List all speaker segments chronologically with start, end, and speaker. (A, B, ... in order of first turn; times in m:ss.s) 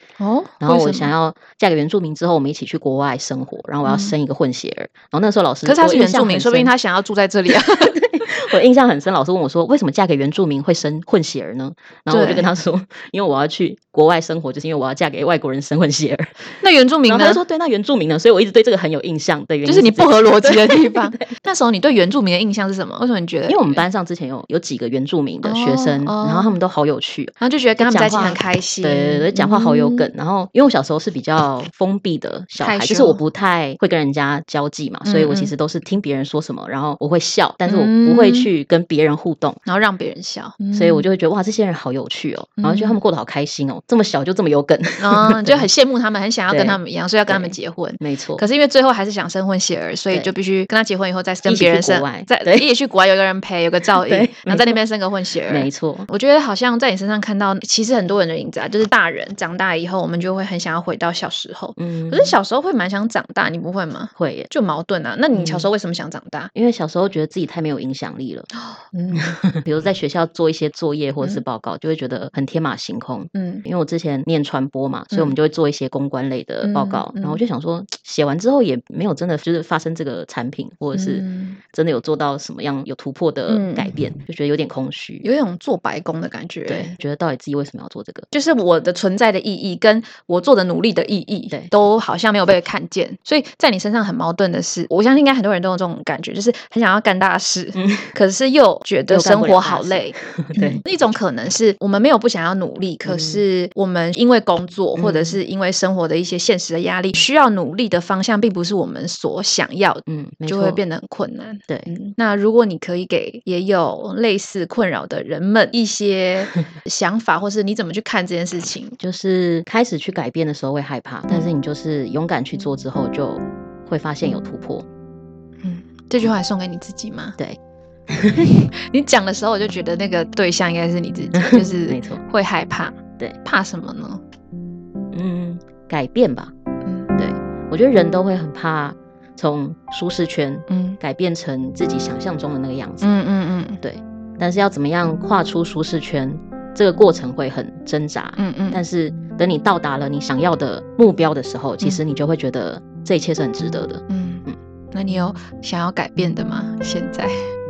0:00.2-0:01.1 A
0:00.6-0:06.7 B
0:03.8-0:04.1 A
0:05.6-0:08.0 A
0:07.8-0:16.4 B
0:12.1-0:12.5 A
0:16.6-0:17.4 A
0:17.0-0:21.3 B
0:19.6-0:23.8 A
0:23.5-0:39.6 B
0:25.4-0:26.5 A
0:27.4-0:30.1 A
0:32.6-0:33.2 A
0:35.0-0:35.5 A
0:37.6-0:38.5 A
0:39.6-0:41.0 A
0:40.7-0:45.6 B
0:42.6-0:43.0 A
0:45.0-1:06.5 A
0:46.5-0:48.4 B
0:51.4-0:52.7 B
0:54.0-0:54.8 B
0:55.5-0:56.1 B
1:01.8-1:02.3 B
1:04.2-1:04.5 B
1:05.3-1:05.7 B
1:06.5-1:08.5 B
1:08.6-1:09.4 A
1:09.1-1:25.3 B
1:13.3-1:13.6 A
1:16.6-1:17.4 A
1:20.9-1:21.6 A
1:23.5-1:24.0 A
1:25.2-1:26.9 A
1:26.7-1:28.3 B
1:28.3-1:59.0 A
1:37.8-1:38.1 B
1:39.1-1:40.8 B
1:43.0-1:43.4 B
1:45.0-1:45.4 B
1:50.1-1:50.8 B
1:59.0-2:04.8 B
2:05.6-2:07.4 A
2:08.1-2:08.5 B
2:08.4-2:14.2 A
2:11.3-2:12.2 B
2:15.1-2:16.5 B
2:16.8-2:17.1 A
2:17.2-2:23.1 B
2:20.7-2:21.0 A
2:23.0-2:23.8 A
2:23.8-2:34.6 B
2:28.4-2:28.8 A
2:34.1-2:37.4 A